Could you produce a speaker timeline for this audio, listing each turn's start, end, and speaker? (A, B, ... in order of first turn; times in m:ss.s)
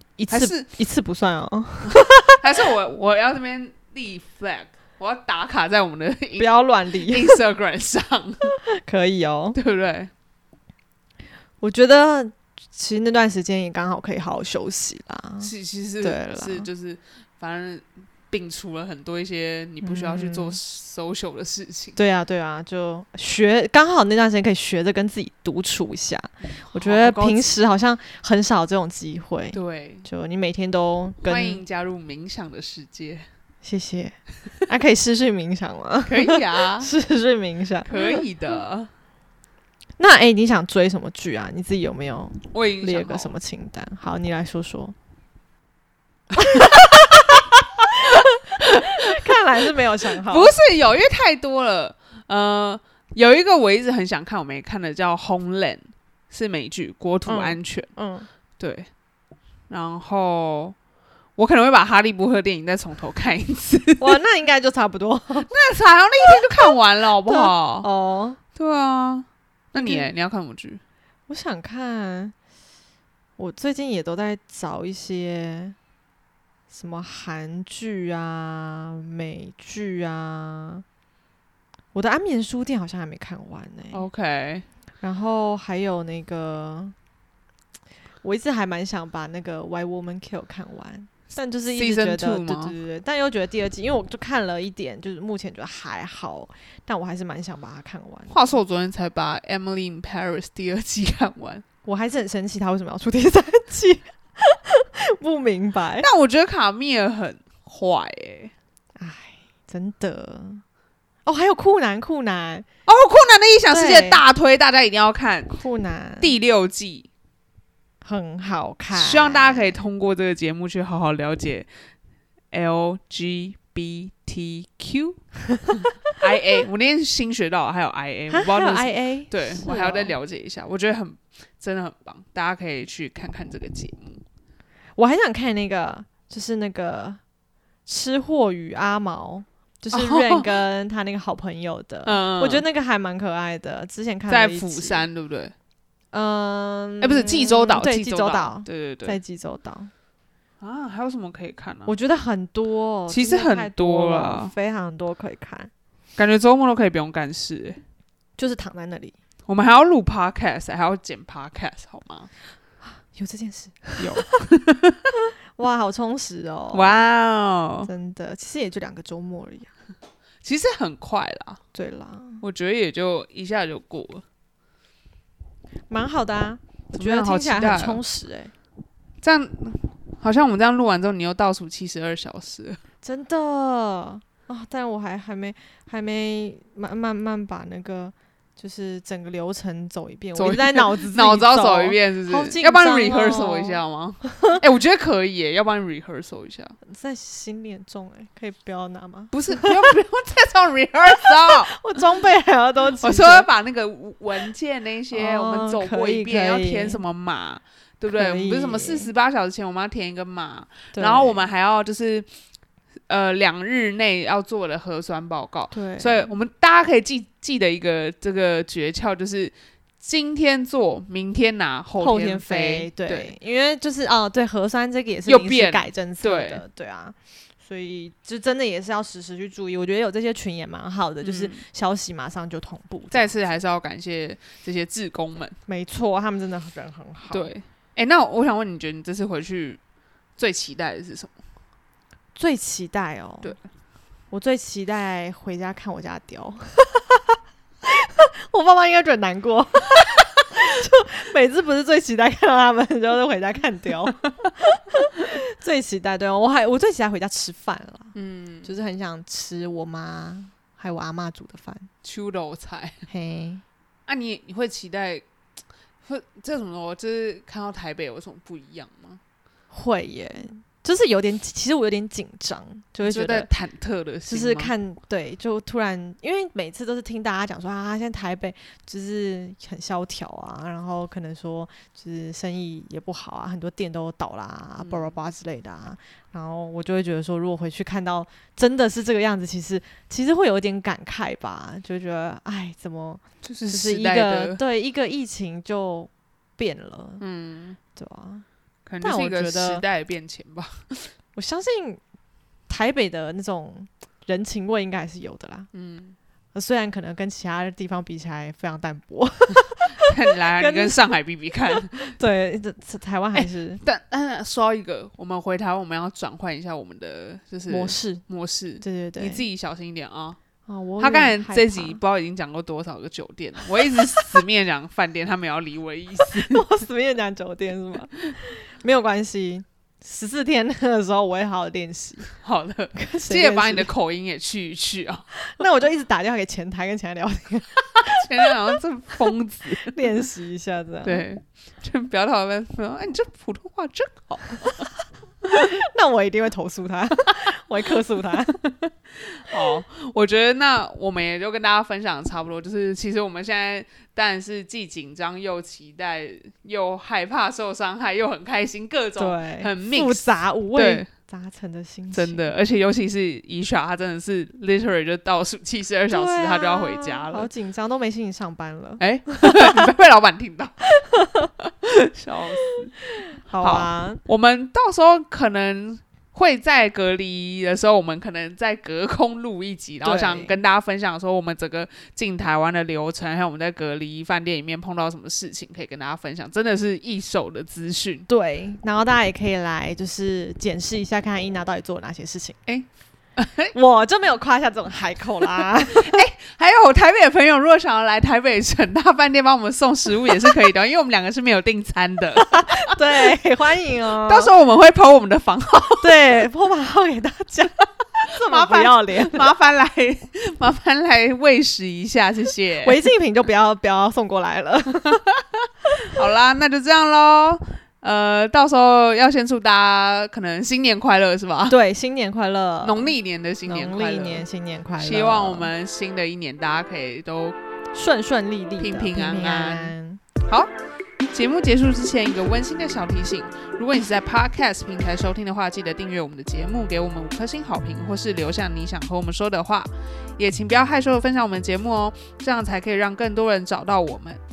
0:00.2-0:02.4 A
0:00.3-0:00.7 B
0:01.8-0:08.6 B
0:06.4-0:07.4 A
0:08.6-0:09.6 A
0:09.5-0:10.1 B
0:11.6-0:16.7 A
0:15.4-0:22.0 B
0:19.8-0:20.6 A
0:22.0-0:31.6 A
0:26.4-0:27.6 B
0:29.5-0:30.1 B
0:31.2-0:33.2 B
0:33.6-0:34.2 A
0:34.7-0:38.2 A
0:36.1-0:36.9 B
0:37.8-0:38.9 B
0:40.0-0:44.9 A
0:42.5-0:43.3 B
0:46.3-0:49.4 B
0:46.4-0:47.4 A
0:48.0-0:50.5 A
0:50.2-0:57.9 B
0:57.2-0:58.3 A
0:58.6-0:58.9 B
0:59.7-1:00.8 B
1:01.4-1:04.2 B
1:04.0-1:05.5 A
1:05.4-1:07.9 B
1:06.4-1:06.7 A
1:07.2-1:08.4 A
1:08.6-1:10.8 B
1:09.8-1:10.1 A
1:11.3-1:12.3 A
1:13.4-1:15.8 A
1:16.7-1:20.8 A
1:21.9-1:24.0 A
1:23.9-1:24.6 B
1:25.0-1:26.9 A
1:28.2-1:38.3 A
1:31.7-1:32.7 B
1:38.3-1:41.6 B
1:41.8-1:46.1 A
1:46.0-1:48.5 B
1:49.0-1:50.6 A
1:51.2-1:52.6 A
1:52.8-1:55.6 B
1:53.7-1:54.2 A
1:55.5-1:56.3 A
1:56.2-1:57.1 B
1:58.0-1:59.8 A
1:58.9-2:01.7 B
2:02.5-2:14.2 B
2:08.3-2:10.1 A
2:15.0-2:17.2 A
2:17.8-2:25.0 A
2:19.9-2:20.5 B
2:22.0-2:22.6 B
2:24.3-2:25.5 B
2:26.1-2:29.9 A
2:27.0-2:29.2 B
2:30.6-2:31.9 B
2:31.9-2:35.7 A
2:33.1-2:34.5 B
2:36.2-2:37.8 B
2:38.4-2:39.1 A
2:39.5-2:42.3 B
2:43.0-2:44.0 A
2:44.0-2:45.0 B
2:45.6-2:47.0 A
2:46.7-2:47.9 B
2:47.8-2:49.7 A
2:50.4-2:51.6 B
2:51.7-2:52.4 A
2:52.4-2:54.2 B
2:55.9-2:58.5 A
2:56.9-2:58.0 B
2:59.2-3:02.8 B
3:03.0-3:14.6 A
3:10.4-3:16.8 B
3:16.8-3:19.8 A
3:19.3-3:21.8 B
3:21.3-3:23.5 A
3:23.0-3:32.3 B
3:25.1-3:27.0 A
3:28.1-3:29.1 A
3:30.9-3:31.4 A
3:33.1-3:43.3 B
3:35.7-3:36.3 A
3:42.0-3:53.4 A
3:45.2-3:46.6 B
3:51.2-3:51.6 B
3:53.1-3:55.6 B
3:55.7-3:57.5 A
3:57.3-3:59.8 B
4:00.4-4:01.4 B
4:02.4-4:03.5 A
4:04.3-4:21.9 A
4:18.1-4:18.7 B
4:22.0-4:23.1 B
4:23.1-4:23.6 A
4:24.1-4:25.2 B
4:26.0-4:29.2 B
4:29.7-4:33.5 A
4:33.0-4:34.7 B
4:34.3-4:57.2 A
4:44.8-4:45.1 B
4:53.4-4:54.6 B
4:57.2-4:57.8 B
4:58.0-4:58.4 A
4:58.8-5:01.1 B
4:59.0-4:59.8 A
5:01.3-5:02.0 A
5:02.7-5:05.7 A
5:05.7-5:06.2 B
5:06.5-5:11.1 A
5:09.5-5:12.1 B
5:11.8-5:13.8 A
5:13.4-5:20.4 B
5:17.7-5:18.2 A
5:18.8-5:19.4 A
5:20.6-5:22.0 A
5:21.0-5:26.7 B
5:23.9-5:24.2 A
5:26.3-5:32.3 A
5:32.3-5:35.3 B
5:32.9-5:33.9 A
5:35.4-5:38.5 A
5:37.9-5:40.0 B
5:39.8-5:41.2 A
5:41.0-5:44.9 B
5:45.4-5:48.6 A
5:48.6-6:00.2 B
5:59.2-6:02.5 A
6:00.7-6:01.1 B
6:02.1-6:07.5 B
6:06.1-6:09.9 A
6:09.0-6:10.8 B
6:10.9-6:11.5 A
6:11.6-6:12.9 B
6:13.3-6:14.2 A
6:13.6-6:28.3 B
6:20.0-6:20.6 A
6:28.3-6:32.6 A
6:32.7-6:33.7 B
6:33.7-6:36.2 A
6:35.9-6:43.2 B
6:42.5-6:44.5 A
6:44.2-6:46.2 B
6:46.0-6:49.5 A
6:48.3-6:53.0 B
6:52.8-6:55.2 A
6:55.0-7:01.8 B
7:01.7-7:03.1 A
7:02.8-7:04.4 B
7:03.6-7:05.7 A
7:05.0-7:07.6 B
7:07.9-7:10.2 A
7:08.8-7:09.9 B
7:11.3-7:24.4 B